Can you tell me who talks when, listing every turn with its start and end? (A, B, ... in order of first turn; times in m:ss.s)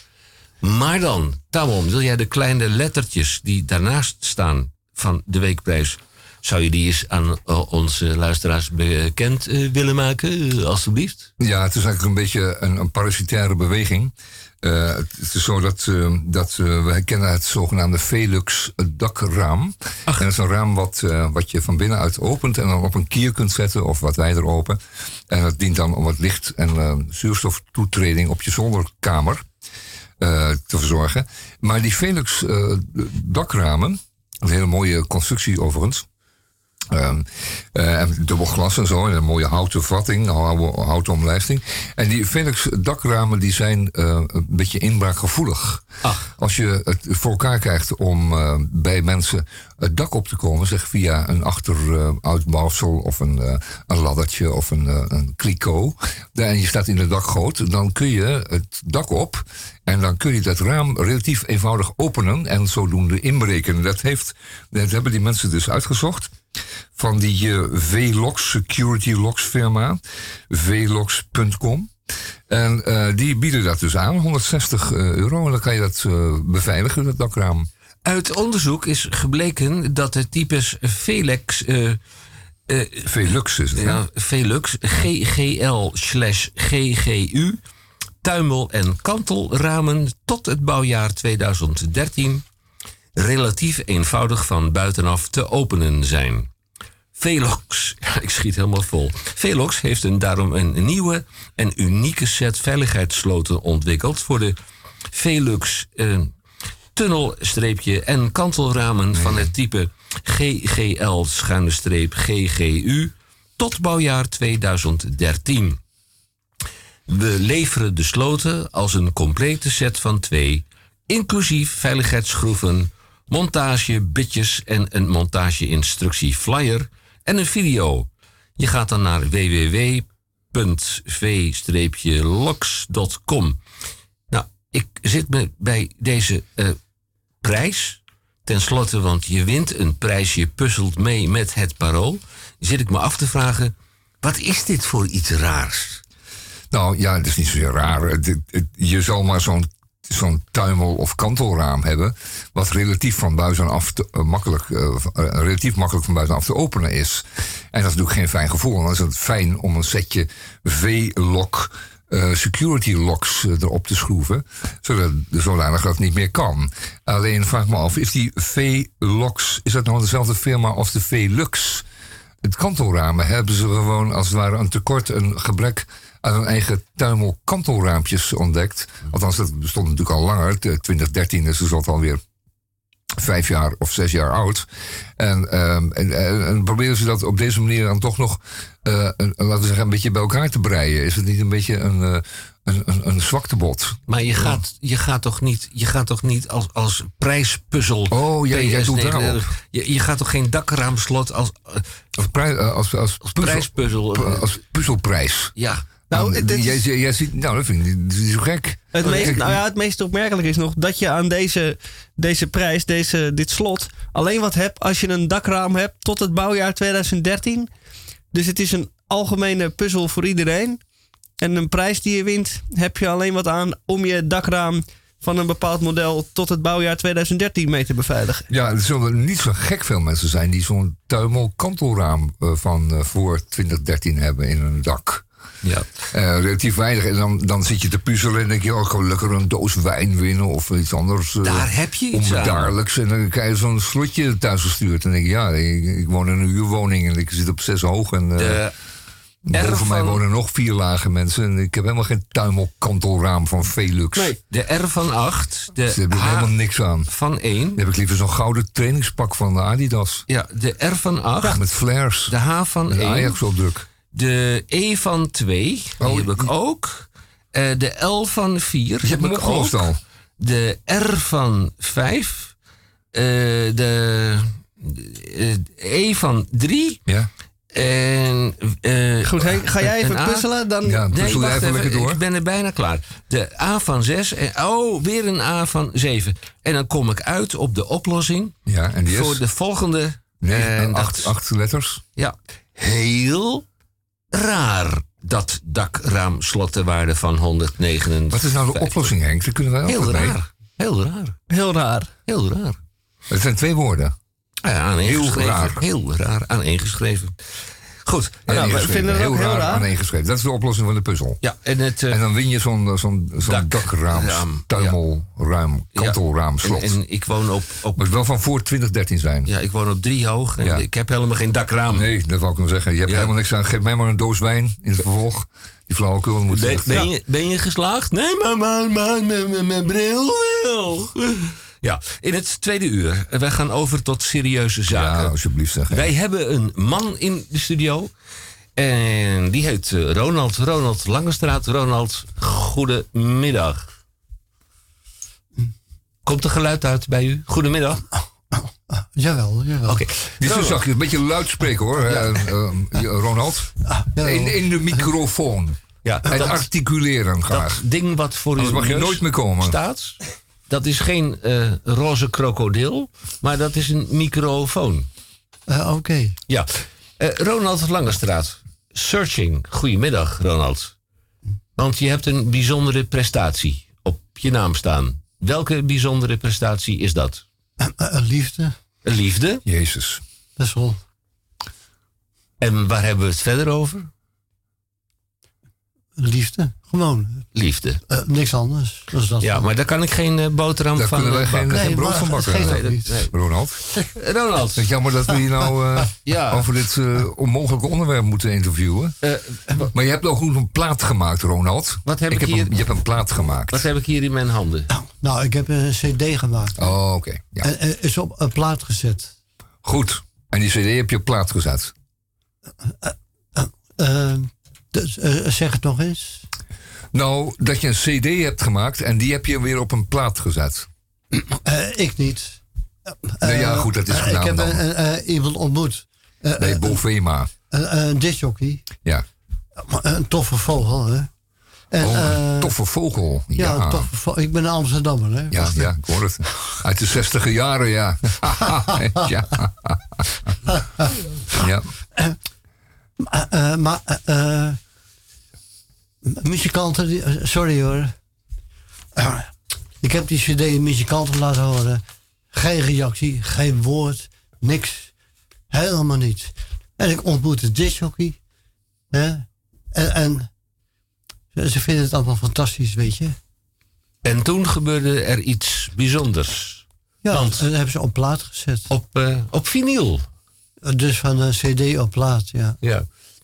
0:00.6-0:11.3 A
0:11.4-0:29.4 B
0:30.2-0:36.1 B
0:36.9-1:06.3 B
0:46.0-0:46.3 A
1:07.0-1:11.9 B
1:12.5-1:17.7 B
1:18.0-1:22.0 A
1:22.7-1:23.2 A
1:23.1-1:24.0 B
1:23.7-1:27.6 A
1:28.2-1:32.4 A
1:33.2-1:36.5 A
1:37.2-1:44.6 A
1:45.1-1:46.3 A
1:47.0-1:55.8 A
1:49.2-1:49.5 B
1:57.1-2:08.1 A
2:08.6-2:13.6 A
2:14.3-2:16.8 A
2:17.4-2:26.0 A
2:26.7-2:51.8 B
2:52.4-3:02.2 B
3:03.2-3:14.6 B
3:14.1-3:21.9 A
3:18.1-3:19.4 B
3:22.2-3:25.6 B
3:23.2-3:24.5 A
3:25.6-3:25.9 A
3:26.1-3:29.6 B
3:26.1-3:26.8 C
3:28.9-3:37.7 C
3:38.3-3:40.8 C
3:41.4-3:48.5 C
3:48.5-3:55.3 B
3:56.1-4:08.6 B
4:01.4-4:02.8 A
4:08.4-4:08.7 A
4:09.5-4:14.4 B
4:09.5-4:10.2 A
4:14.5-4:16.5 A
4:15.9-4:17.1 B
4:17.1-4:17.8 A
4:17.8-4:20.3 B
4:20.3-4:21.6 A
4:21.4-4:22.4 B
4:22.3-4:23.4 A
4:22.9-4:23.9 B
4:24.1-4:29.9 A
4:26.0-4:26.5 B
4:29.0-4:30.0 B
4:30.4-4:32.5 A
4:33.1-4:37.0 A
4:37.7-4:40.5 A
4:39.2-4:41.0 C
4:40.8-4:42.2 B
4:41.1-4:48.6 A
4:48.7-4:49.4 B
4:49.1-4:51.3 A
4:50.4-4:52.0 B
4:52.2-4:53.6 A
4:54.3-4:59.1 A
4:58.3-5:00.4 B
4:59.9-5:01.4 A
5:01.5-5:02.1 C
5:02.3-5:02.8 A
5:03.3-5:04.2 B
5:04.6-5:08.6 A
5:05.0-5:05.8 B
5:08.5-5:11.4 B
5:08.5-5:09.8 C
5:11.4-5:12.2 A
5:12.1-5:17.0 B
5:13.4-5:15.0 A
5:16.0-5:18.1 A
5:18.0-5:19.5 B
5:19.5-5:22.1 A
5:21.9-5:27.1 B
5:26.5-5:35.3 A
5:34.9-5:36.1 B
5:35.9-5:38.1 A
5:38.8-5:43.9 A
5:46.2-5:48.1 A
5:48.5-5:50.0 D
5:49.9-5:50.8 A
5:50.4-5:57.8 B
5:52.0-5:52.5 D
5:53.8-5:54.6 D
5:56.0-5:56.7 A
5:57.5-6:05.1 A
5:58.6-5:59.8 B
6:05.7-6:06.4 D
6:06.5-6:10.9 A
6:11.8-6:17.4 A
6:17.8-6:18.8 D
6:19.0-6:19.6 A
6:19.6-6:20.2 B
6:20.6-6:21.0 D
6:22.6-6:24.1 A
6:26.2-6:27.5 D
6:27.5-6:28.0 A
6:28.1-6:29.7 D
6:29.4-6:33.3 A
6:31.0-6:33.8 B
6:31.7-6:33.2 D
6:34.2-6:34.9 A
6:34.8-6:39.2 B
6:36.2-6:36.6 A
6:39.2-6:39.9 A
6:39.9-6:43.9 B
6:42.1-6:42.7 A
6:43.7-6:44.9 A
6:44.9-6:46.8 D
6:46.8-6:47.7 B
6:47.6-6:49.3 D
6:49.8-6:51.9 B
6:52.8-6:56.4 D
6:57.1-7:00.9 B
7:01.3-7:07.0 D
7:03.4-7:04.8 B
7:06.6-7:07.5 B
7:07.7-7:08.9 D
7:09.8-7:11.3 D
7:11.9-7:12.8 D
7:12.0-7:14.1 B
7:13.6-7:15.9 D
7:15.5-7:20.5 B
7:20.7-7:21.0 D
7:21.5-7:21.9 B
7:23.2-7:24.8 D
7:26.2-7:28.2 D
7:29.2-7:35.1 D
7:35.7-7:38.4 D
7:39.1-7:40.5 D
7:41.5-7:43.4 D
7:44.2-7:47.6 A
7:47.2-7:48.9 D
7:48.9-7:50.3 A
7:50.8-7:52.8 D